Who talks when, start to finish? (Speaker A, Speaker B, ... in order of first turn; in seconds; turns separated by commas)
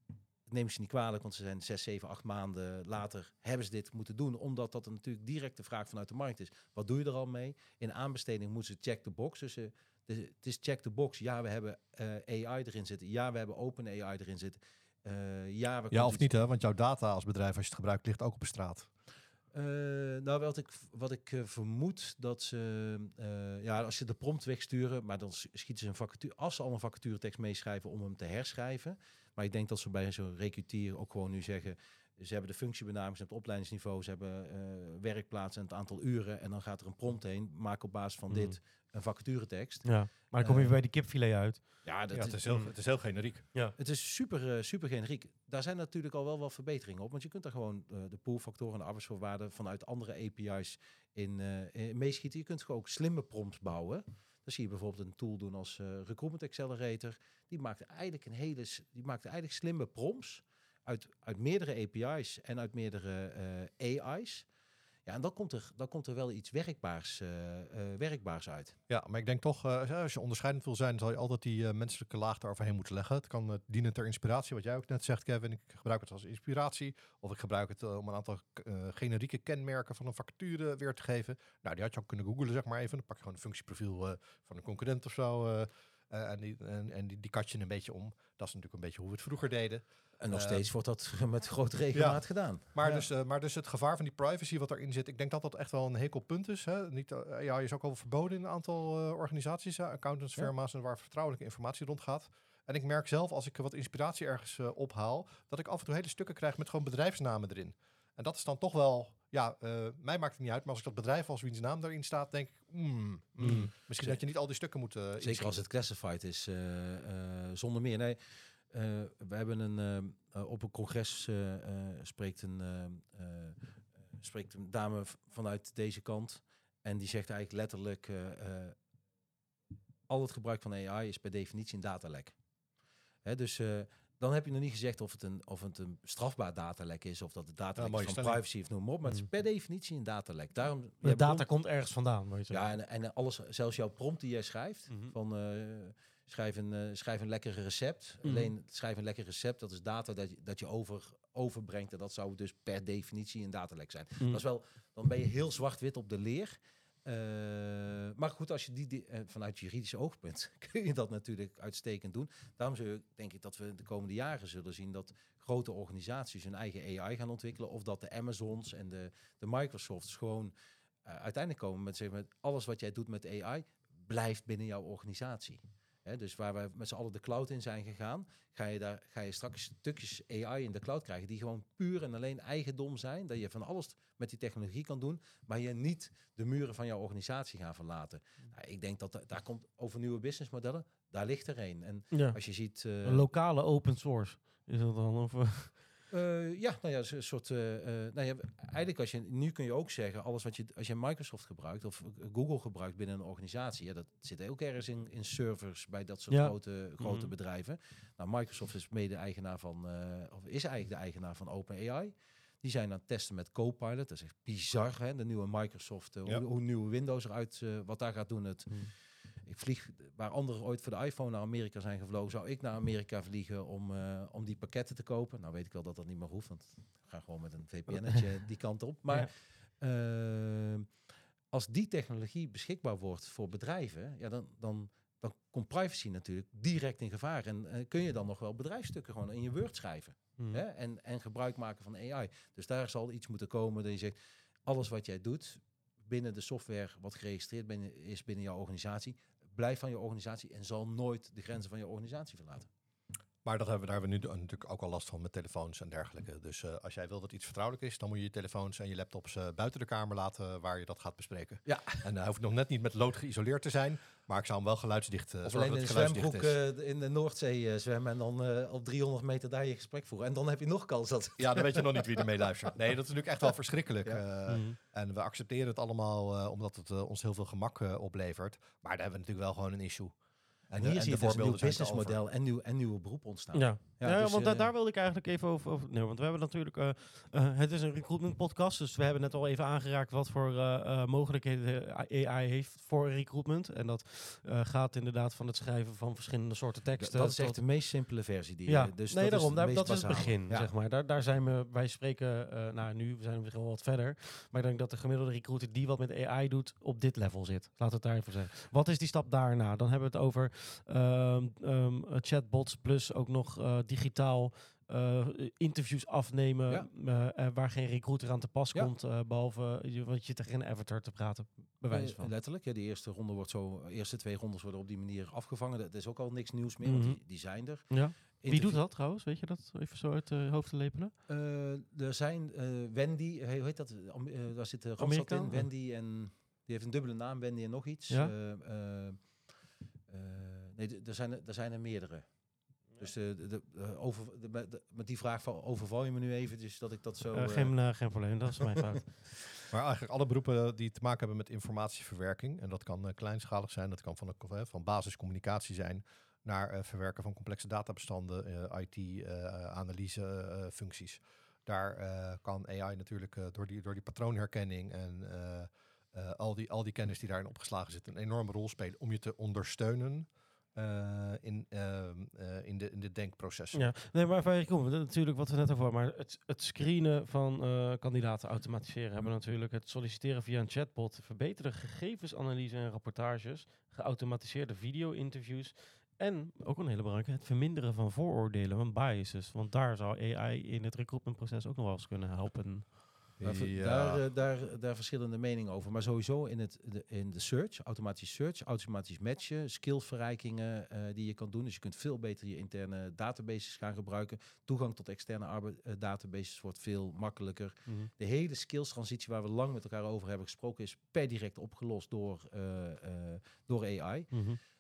Speaker A: 0.5-16.3, Speaker B: 15.9-18.9, Speaker A: 19.5-40.7, Speaker C: 38.3-38.6, Speaker C: 39.8-41.8, Speaker A: 41.8-42.7, Speaker B: 42.1-43.4, Speaker A: 43.8-64.5, Speaker A: 65.0-68.8, Speaker B: 68.9-90.7, Speaker A: 90.2-93.0, Speaker B: 91.9-115.6, Speaker C: 113.4-113.7, Speaker A: 115.2-123.6, Speaker A: 124.2-128.7, Speaker A: 130.1-132.3, Speaker A: 133.2-141.5, Speaker B: 137.8-138.4, Speaker C: 141.0-142.7, Speaker A: 142.5-170.5, Speaker C: 148.2-148.5, Speaker A: 171.1-193.3, Speaker C: 192.1-195.8, Speaker A: 196.1-230.9, Speaker C: 206.3-207.3, Speaker A: 231.5-252.7, Speaker B: 253.4-266.5, Speaker A: 261.6-262.0, Speaker A: 265.4-272.2, Speaker B: 271.4-280.1, Speaker C: 274.5-274.8, Speaker B: 280.7-282.2, Speaker A: 280.8-284.7, Speaker C: 283.5-297.6, Speaker A: 297.0-300.7, Speaker C: 298.7-322.3, Speaker A: 321.9-328.8, Speaker C: 326.8-331.1, Speaker A: 331.3-339.2, Speaker C: 335.0-335.7, Speaker A: 340.1-342.3, Speaker A: 343.0-347.8, Speaker C: 347.3-349.3, Speaker B: 349.7-373.9, Speaker C: 373.7-393.0, Speaker B: 393.4-394.2, Speaker A: 393.4-414.4, Speaker C: 414.3-414.6